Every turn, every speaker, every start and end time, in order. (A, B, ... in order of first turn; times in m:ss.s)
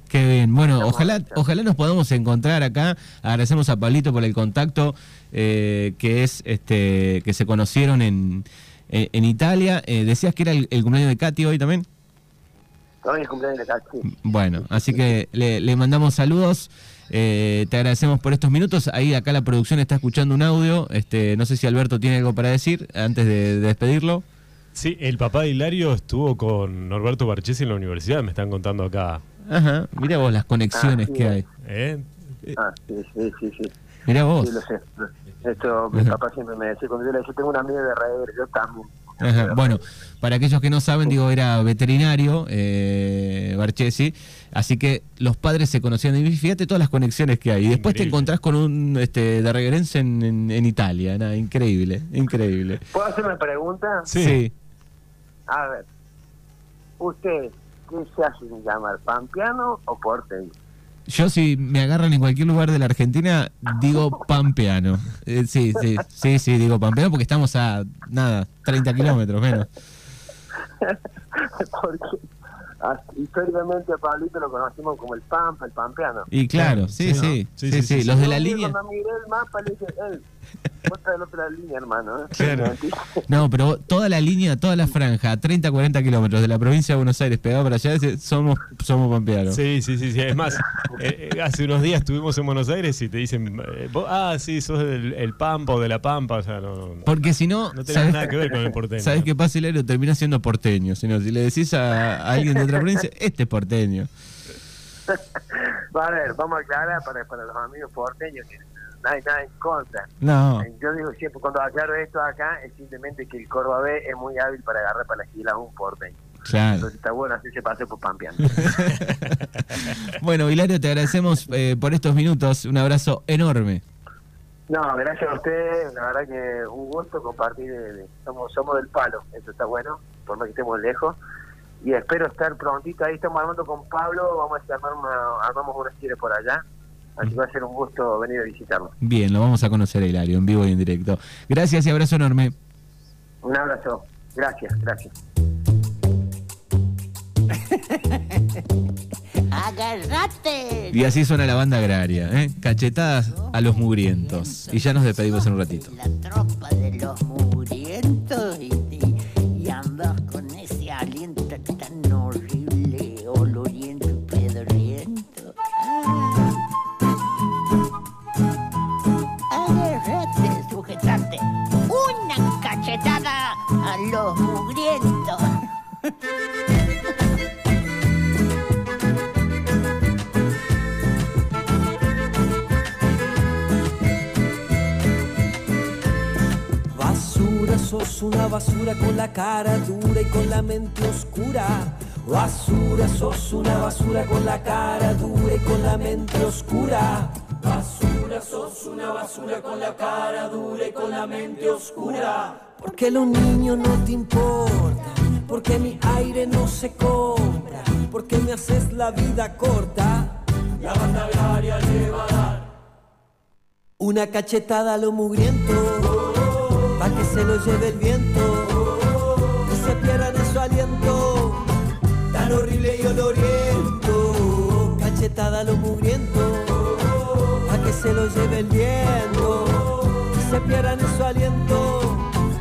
0:00.1-0:11.9 A
0:00.8-0:01.5 B
0:13.0-0:15.0 B
0:14.2-0:24.2 A
0:24.8-0:29.2 C
0:29.5-0:31.5 A
0:30.7-0:31.4 B
0:31.6-0:32.1 C
0:32.6-0:33.8 B
0:34.1-0:34.6 A
0:34.4-0:39.8 B
0:39.2-0:52.8 A
0:47.7-0:48.3 C
0:52.9-0:54.1 B
0:54.1-0:54.4 C
0:54.1-0:54.5 A
0:55.5-0:55.9 B
0:57.0-1:00.5 B
1:01.1-1:09.7 A
1:10.8-1:12.2 B
1:12.8-1:16.3 B
1:16.3-1:18.7 A
1:16.6-1:18.1 C
1:18.1-1:20.2 B
1:20.9-1:23.3 B
1:22.4-1:22.7 A
1:23.3-1:29.6 A
1:29.5-1:37.1 C
1:37.1-1:38.3 A
1:37.7-1:39.3 C
1:39.0-1:44.1 A
1:45.1-1:56.2 B
1:50.2-1:50.7 A
1:56.4-1:56.9 A
1:56.8-1:58.8 B
1:58.6-2:03.8 A
2:04.7-2:11.2 B
2:11.8-2:16.6 B
2:17.2-2:18.9 B
2:19.0-2:22.5 A
2:23.4-2:25.2 B
2:27.5-2:28.6 D
2:29.5-2:31.2 D
2:30.9-2:35.9 A
2:33.0-2:46.6 D
2:49.5-2:55.4 D
3:06.9-3:32.6 E
3:34.0-3:36.2 E
3:37.0-3:39.0 E
3:39.6-3:41.7 E
3:42.3-3:47.0 E
3:47.7-3:52.3 E